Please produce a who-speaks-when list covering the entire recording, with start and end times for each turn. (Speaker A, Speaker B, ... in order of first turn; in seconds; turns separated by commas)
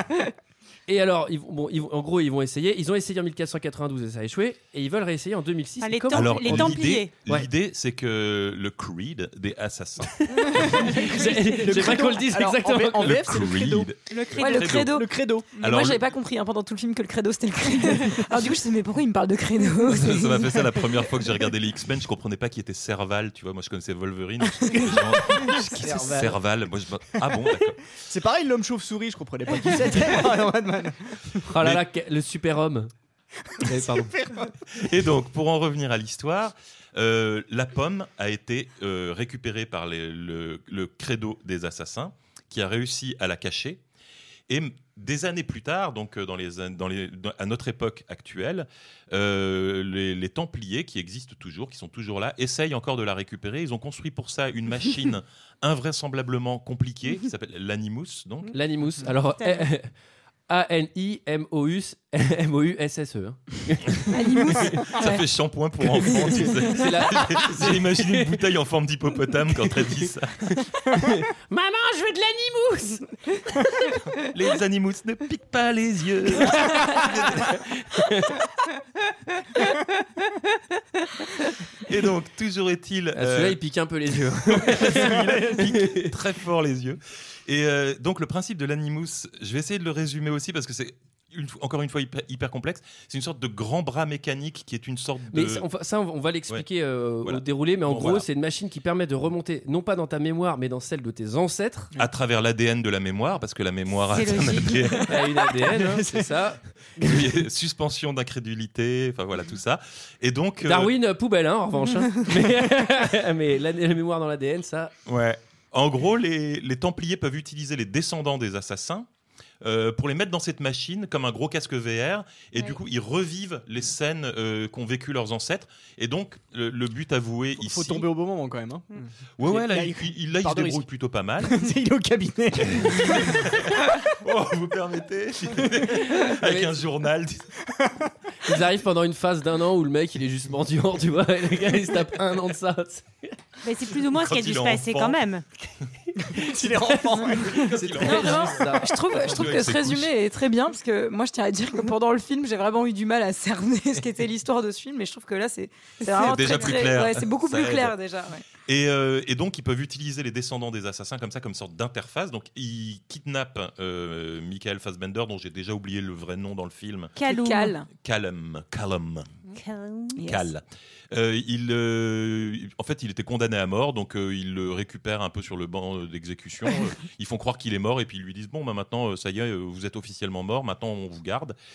Speaker A: 0.9-7.5, Speaker B: 5.8-7.1, Speaker C: 6.1-10.8, Speaker A: 10.2-13.4, Speaker D: 11.0-13.9, Speaker C: 13.0-14.9, Speaker B: 14.1-14.8, Speaker E: 14.4-20.8, Speaker D: 14.8-15.5, Speaker C: 15.6-16.0, Speaker C: 19.9-27.9, Speaker A: 25.8-26.2, Speaker D: 25.9-26.3, Speaker D: 28.1-31.4, Speaker A: 31.5-32.9, Speaker D: 33.6-34.5, Speaker A: 33.6-34.1, Speaker C: 34.7-43.8, Speaker C: 44.5-58.6, Speaker A: 58.5-59.9, Speaker B: 59.4-59.7, Speaker A: 60.5-65.0, Speaker E: 64.1-65.2, Speaker C: 64.9-70.6, Speaker A: 66.6-68.4, Speaker A: 70.9-73.1, Speaker C: 74.1-77.6, Speaker A: 76.6-78.4, Speaker C: 81.8-83.6, Speaker A: 83.1-86.1, Speaker C: 84.5-95.7, Speaker D: 85.1-85.4, Speaker A: 95.3-101.9, Speaker C: 97.2-98.3, Speaker C: 102.0-105.3, Speaker B: 104.1-105.0, Speaker A: 105.1-107.3, Speaker D: 105.7-106.3, Speaker C: 107.0-110.9, Speaker A: 110.6-114.9, Speaker C: 115.1-119.1, Speaker C: 119.6-128.1, Speaker D: 127.6-130.8, Speaker C: 129.4-131.6, Speaker D: 131.4-133.5, Speaker C: 132.8-137.6, Speaker A: 136.2-136.7, Speaker A: 138.4-143.3, Speaker B: 143.6-145.4, Speaker C: 144.1-145.2, Speaker A: 146.2-147.2, Speaker D: 146.3-148.7, Speaker C: 147.4-150.1, Speaker E: 148.0-158.4, Speaker A: 148.1-148.9, Speaker B: 156.1-156.7, Speaker C: 156.1-158.0, Speaker C: 158.7-167.1, Speaker B: 167.2-167.8, Speaker E: 167.3-167.9, Speaker C: 168.0-169.3, Speaker B: 169.6-170.2, Speaker E: 170.2-170.5, Speaker C: 170.2-181.6